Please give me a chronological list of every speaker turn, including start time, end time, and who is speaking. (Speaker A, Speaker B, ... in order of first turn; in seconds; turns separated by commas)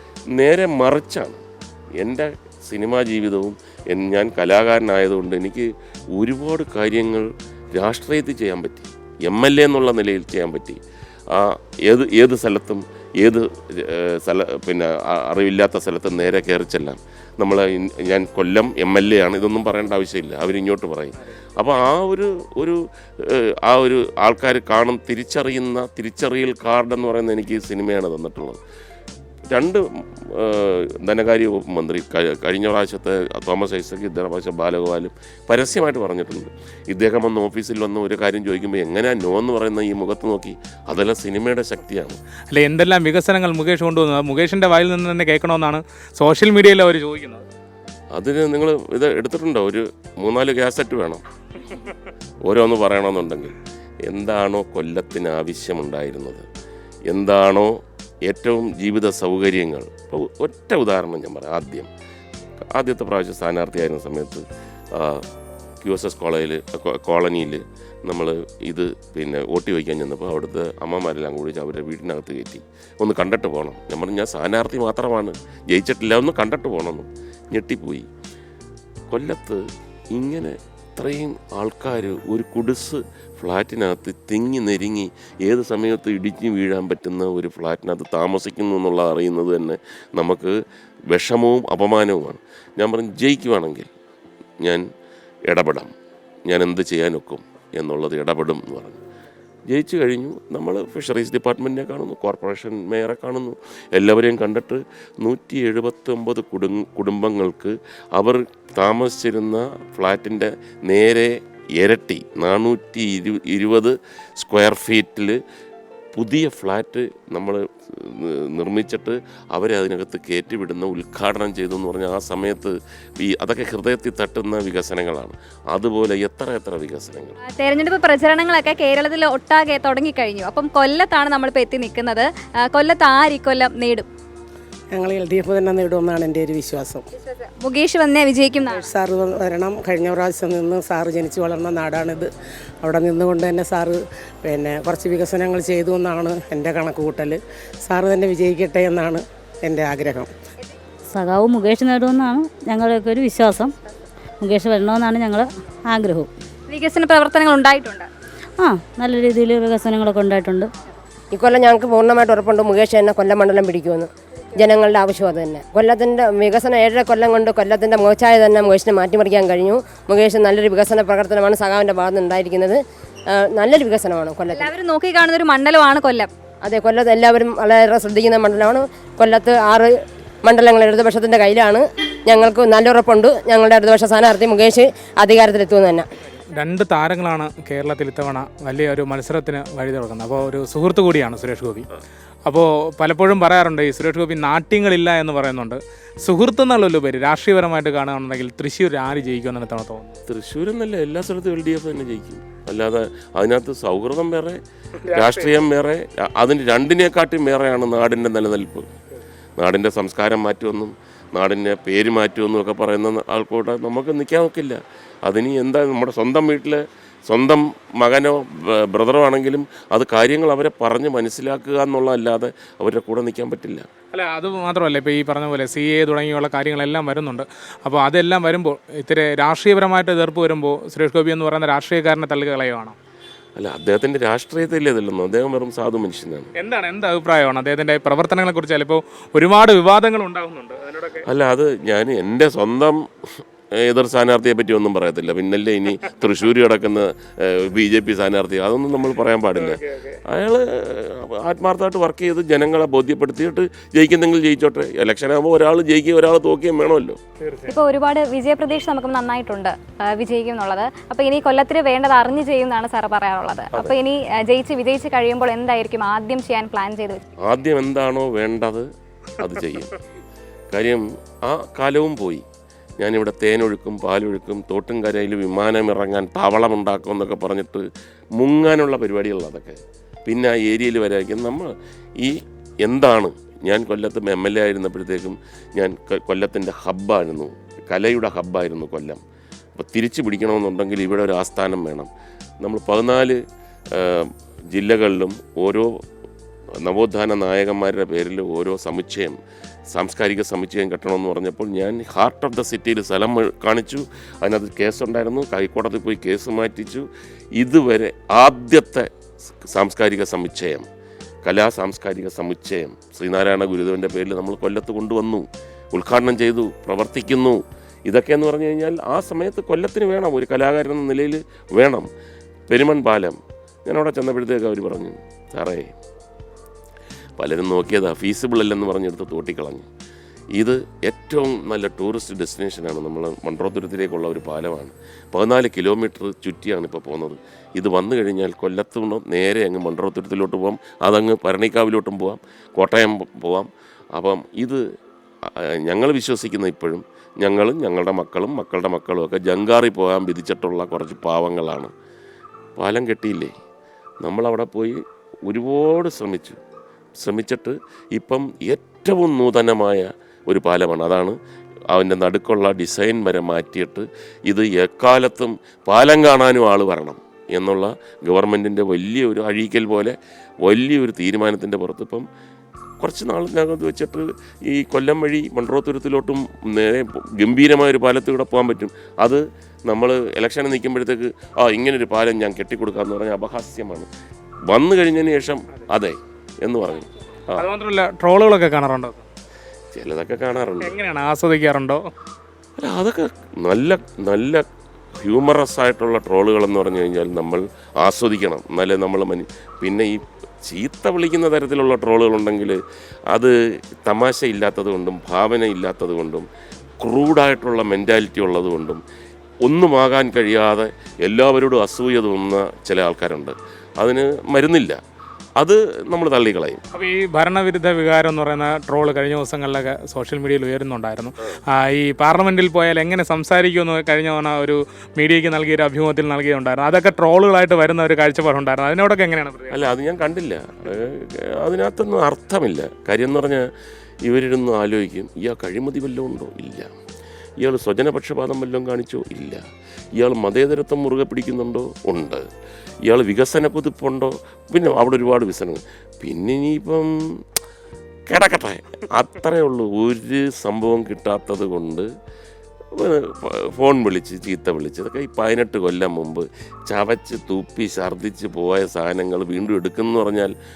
Speaker A: 0.3-1.4, Speaker A: 2.0-28.6, Speaker A: 29.5-42.2, Speaker B: 42.5-47.5, Speaker A: 48.1-51.2, Speaker A: 52.5-53.5, Speaker A: 54.1-56.5, Speaker A: 57.1-61.9, Speaker A: 62.7-64.4, Speaker A: 65.0-65.2, Speaker A: 65.8-78.1, Speaker A: 79.1-90.6, Speaker A: 91.1-93.9, Speaker A: 95.5-95.9, Speaker A: 96.5-99.0, Speaker A: 99.7-115.4, Speaker A: 116.2-127.4, Speaker C: 127.4-134.1, Speaker D: 134.9-137.1, Speaker C: 137.2-138.9, Speaker D: 138.7-142.3, Speaker D: 142.8-150.3, Speaker E: 151.1-153.7, Speaker E: 154.4-156.3, Speaker C: 156.7-158.1, Speaker E: 158.6-160.7, Speaker F: 161.3-174.7, Speaker C: 174.5-176.3, Speaker F: 176.6-186.1, Speaker B: 186.5-191.9, Speaker B: 192.5-200.2, Speaker A: 200.3-204.6, Speaker B: 205.1-205.6, Speaker A: 205.1-208.9, Speaker A: 209.6-223.9, Speaker B: 224.1-233.0, Speaker A: 233.6-236.5, Speaker B: 236.6-241.2, Speaker A: 241.3-243.0, Speaker A: 243.8-257.2, Speaker B: 249.6-250.2, Speaker B: 257.4-257.8, Speaker C: 257.7-267.2, Speaker A: 267.4-268.9, Speaker A: 269.4-269.9, Speaker A: 270.7-272.4, Speaker A: 273.0-277.9, Speaker A: 278.4-289.2, Speaker A: 289.8-292.1, Speaker A: 292.6-293.4, Speaker A: 293.9-295.9, Speaker A: 296.8-299.4, Speaker A: 299.9-309.1, Speaker A: 309.6-310.9, Speaker A: 311.4-322.1, Speaker A: 322.7-325.9, Speaker A: 327.4-329.9, Speaker A: 330.6-344.8, Speaker A: 345.5-351.9, Speaker A: 352.8-353.5, Speaker A: 354.2-356.6, Speaker A: 357.2-361.4, Speaker A: 361.9-372.3, Speaker A: 373.0-384.1, Speaker A: 384.7-387.7, Speaker B: 387.6-389.3, Speaker A: 389.9-390.9, Speaker B: 390.8-392.1, Speaker A: 392.8-394.6, Speaker A: 395.2-402.8, Speaker A: 404.1-406.5, Speaker A: 407.0-409.0, Speaker A: 409.6-415.0, Speaker A: 415.6-416.8, Speaker B: 416.9-429.8, Speaker A: 429.7-433.6, Speaker A: 434.3-436.9, Speaker A: 437.6-439.6, Speaker A: 440.2-442.5, Speaker A: 443.1-447.2, Speaker A: 448.3-452.1, Speaker A: 452.9-460.5